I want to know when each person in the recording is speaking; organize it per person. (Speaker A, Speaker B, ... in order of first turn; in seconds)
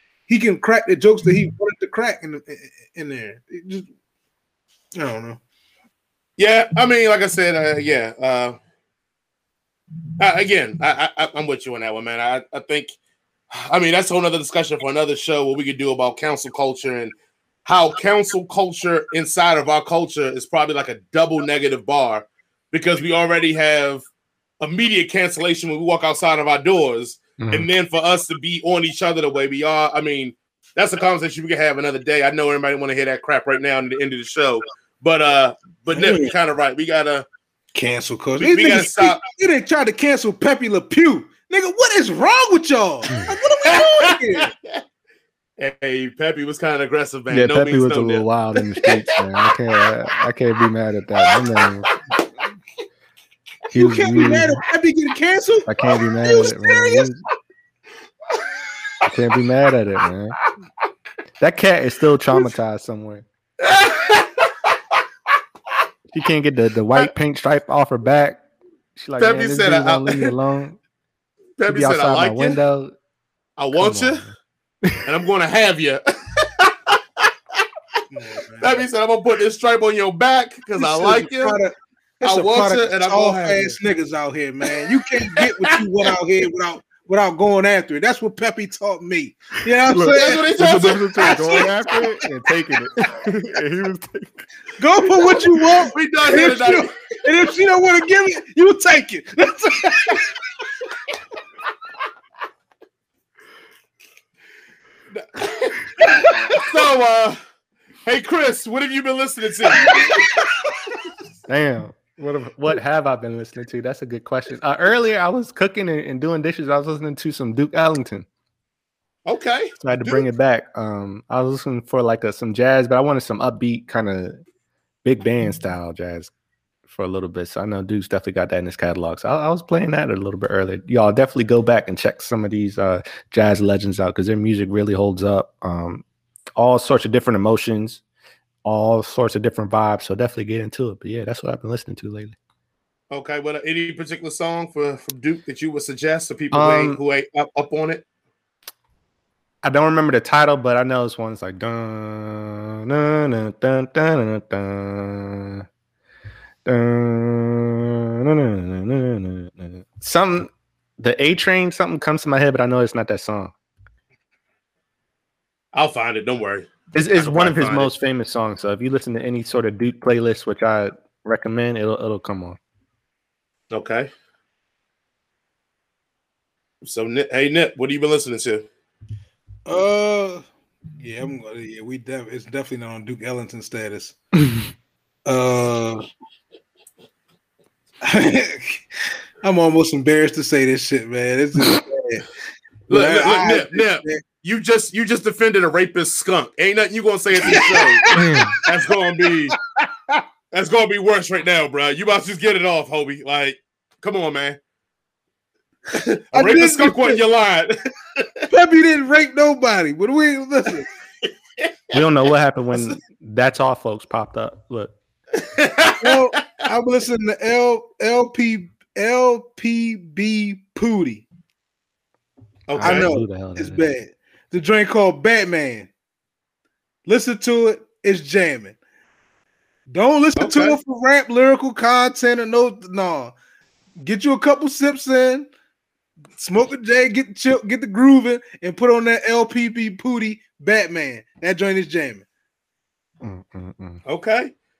Speaker A: 0.3-3.9, 5.0-5.4, 35.9-36.3, 37.7-44.5, 53.7-57.1, 78.1-78.8, 80.8-92.1, 94.8-100.3, 106.1-106.4, 179.7-180.4, 181.0-184.2, 185.3-186.0, 188.0-188.8, 189.4-192.3, 192.9-194.2, 197.4-198.5, 199.5-200.2, 206.3-207.2, 208.5-210.9, 216.0-221.2, 222.8-225.9, 227.1-228.8, 229.9-233.3, 234.0-235.5, 236.4-242.2
Speaker B: 6.4-8.6, 10.2-12.9, 13.5-17.1, 17.6-24.1, 24.6-37.2, 38.4-39.2, 43.7-44.8, 45.6-49.2, 51.2-52.0, 63.6-64.7, 69.2-70.3, 71.6-72.6, 73.6-74.3, 75.0-77.6, 78.6-81.6, 82.2-83.8, 85.2-85.8, 90.1-91.7, 95.8-96.9, 105.1-107.4, 108.1-110.0, 119.3-120.2, 143.1-148.0, 165.7-167.9, 173.7-174.1, 176.8-178.7, 192.9-198.1, 198.6-199.6, 200.5-204.6, 205.9-208.5, 211.6-211.9, 215.4-216.2, 222.7-223.1, 230.4-230.8, 244.1-244.5
Speaker C: 27.4-27.7, 47.3-51.9, 53.7-54.6, 55.7-57.2, 59.0-60.4, 61.4-63.2, 66.1-68.4, 69.0-70.8, 71.7-72.9, 73.8-75.1, 89.9-94.4, 111.5-118.3, 119.8-124.4, 125.0-126.3, 126.9-136.1, 136.6-138.0, 138.7-142.3, 146.5-147.0, 149.6-155.7, 156.7-163.5, 166.9-172.6, 198.1-198.6, 211.9-214.9, 222.8-223.8, 243.2-244.0